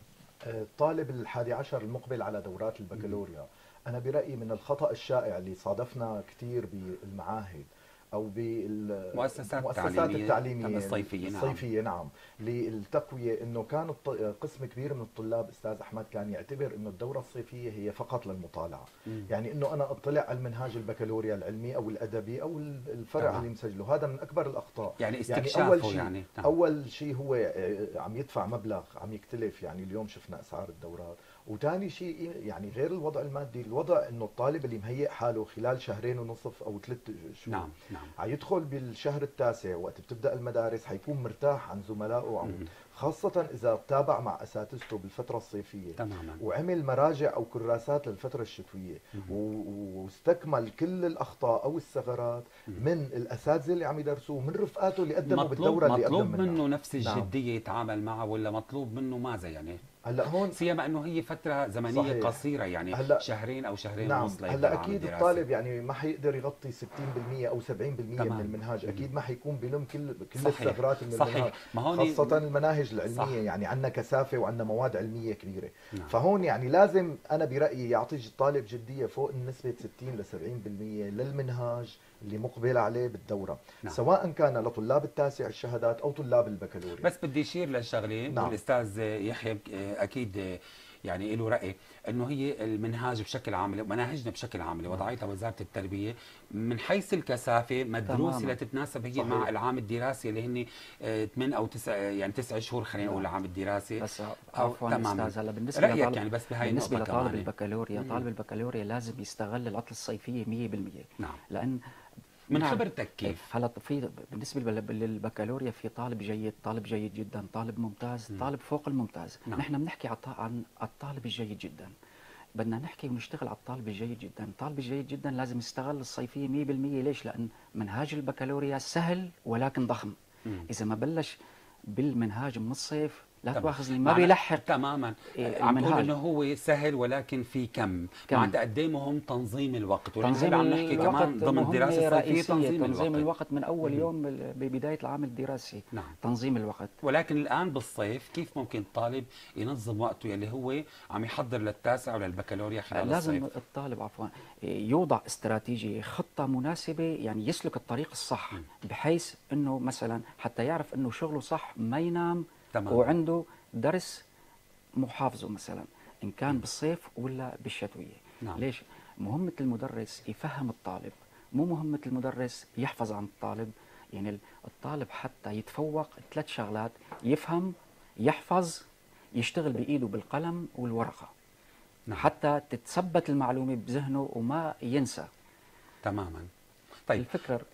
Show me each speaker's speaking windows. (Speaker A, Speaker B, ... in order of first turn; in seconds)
Speaker A: 0.5-37.7, 38.2-57.3, 60.1-60.6, 61.9-63.3, 64.0-87.1, 88.3-88.6, 99.2-99.5
Speaker B: 9.1-11.6, 23.2-23.5, 25.0-26.5, 37.5-38.1, 46.0-46.4, 55.2-59.8, 60.4-65.5, 68.2-68.5, 70.4-72.5, 73.1-73.4, 87.0-104.0, 104.5-108.2, 112.5-113.4, 133.5-143.3, 147.0-153.4, 162.7-163.2, 186.0-186.5, 187.1-187.3
Speaker C: 98.1-98.6, 104.0-111.8, 112.5-121.9, 122.6-130.2, 130.7-131.4, 131.9-134.7, 135.3-136.1, 138.3-138.6, 140.2-146.9, 152.9-164.2, 165.0-181.3, 182.2-185.3, 187.2-187.7